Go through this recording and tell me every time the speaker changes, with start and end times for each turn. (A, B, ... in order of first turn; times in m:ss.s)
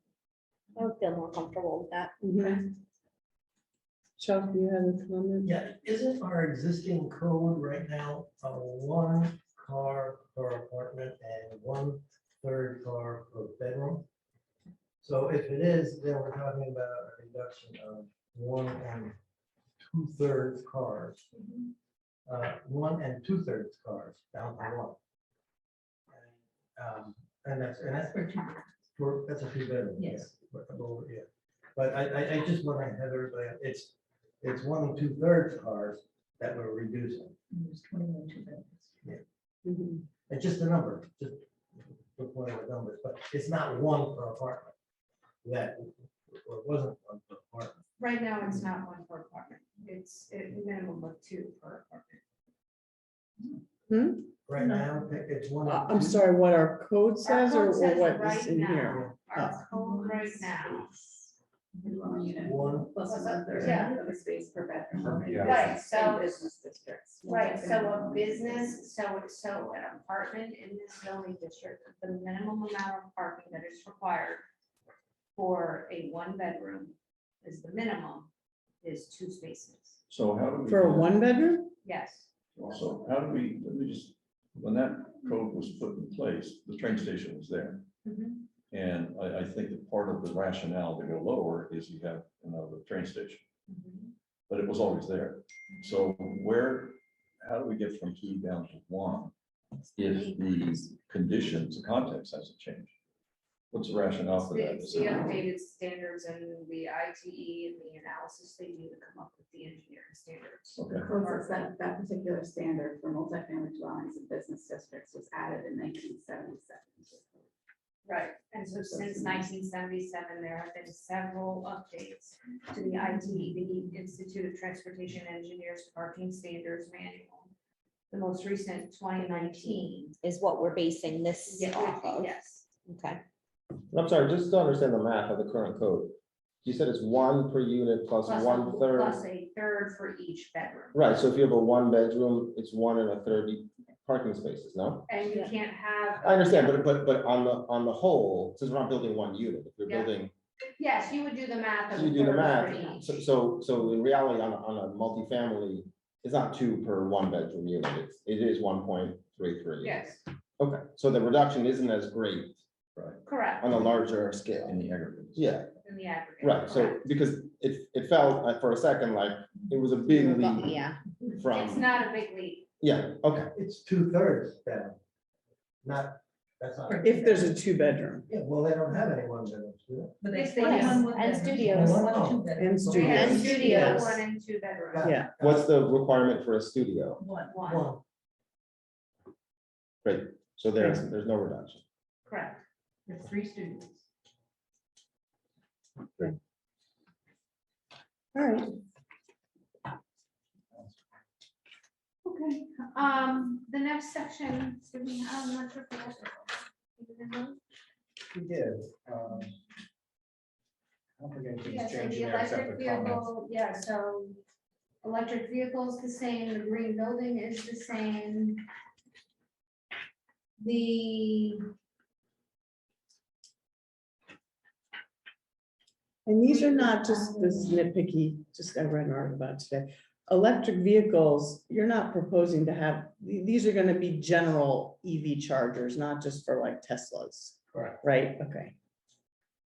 0:00.8-0:02.1 A
0:02.2-0:02.6 B
0:04.2-0:05.5 B
0:05.4-0:14.0 C
0:15.0-0:19.1 C
0:19.8-0:21.2 C
0:22.2-0:25.0 C
0:26.1-0:37.4 C
0:30.0-0:30.3 D
0:37.5-0:39.1 D
0:39.6-0:40.0 B
0:40.3-0:44.7 C
0:45.4-0:47.8 C
0:48.0-0:52.2 E
0:53.9-0:54.3 B
0:54.4-0:56.3 C
0:54.6-0:54.9 D
0:55.6-0:59.6 B
0:57.2-1:00.9 E
0:59.7-1:00.8 D
1:01.8-1:08.8 D
1:02.3-1:03.0 C
1:03.0-1:04.0 E
1:03.5-1:03.9 C
1:05.1-1:05.6 F
1:05.4-1:06.5 E
1:07.2-1:14.4 E
1:15.3-1:18.3 E
1:18.8-1:20.0 E
1:20.1-1:21.1 G
1:20.6-1:21.7 B
1:21.8-1:22.3 E
1:22.5-1:27.8 G
1:28.0-1:28.4 E
1:28.7-1:33.4 G
1:33.7-1:34.0 E
1:34.5-1:39.3 G
1:40.0-1:42.9 G
1:40.0-1:40.8 E
1:43.7-1:45.4 G
1:44.4-1:51.6 E
1:50.7-1:51.1 G
1:51.0-1:57.4 D
1:58.0-2:07.5 E
1:58.9-1:59.4 D
2:08.1-2:10.2 E
2:10.2-2:12.3 A
2:11.5-2:12.7 E
2:12.8-2:13.2 A
2:13.9-2:19.2 H
2:18.2-2:21.0 E
2:20.9-2:25.1 H
2:25.1-2:26.7 E
2:26.2-2:30.3 H
2:29.8-2:30.1 E
2:30.8-2:33.3 E
2:31.9-2:40.0 H
2:39.8-2:40.2 E
2:40.6-2:42.6 H
2:43.0-2:43.2 G
2:43.2-2:43.7 E
2:43.6-2:44.8 H
2:44.6-2:45.5 G
2:45.3-2:45.7 H
2:45.8-2:47.0 E
2:46.4-2:50.8 H
2:50.1-2:51.0 A
2:51.3-2:51.9 H
2:51.5-2:52.7 E
2:52.8-2:53.5 H
2:53.5-2:55.0 C
2:55.8-2:57.1 C
2:56.9-2:57.5 D
2:57.0-2:58.2 B
2:58.3-3:00.2 C
3:00.2-3:03.9 D
3:00.3-3:02.1 E
3:00.6-3:00.9 A
3:01.6-3:04.2 C
3:02.6-3:04.0 B
3:02.9-3:05.1 E
3:04.9-3:05.7 C
3:05.0-3:05.3 B
3:05.4-3:07.2 H
3:07.2-3:07.6 D
3:07.5-3:07.8 E
3:07.6-3:08.0 C
3:10.0-3:11.8 H
3:10.8-3:11.0 B
3:12.2-3:12.6 E
3:13.1-3:14.0 D
3:18.3-3:18.7 B
3:22.2-3:27.6 E
3:28.3-3:29.5 F
3:31.2-3:33.2 F
3:31.6-3:34.4 E
3:35.0-3:38.6 E
3:40.6-3:41.6 E
3:46.2-3:58.7 B
3:47.0-3:47.5 E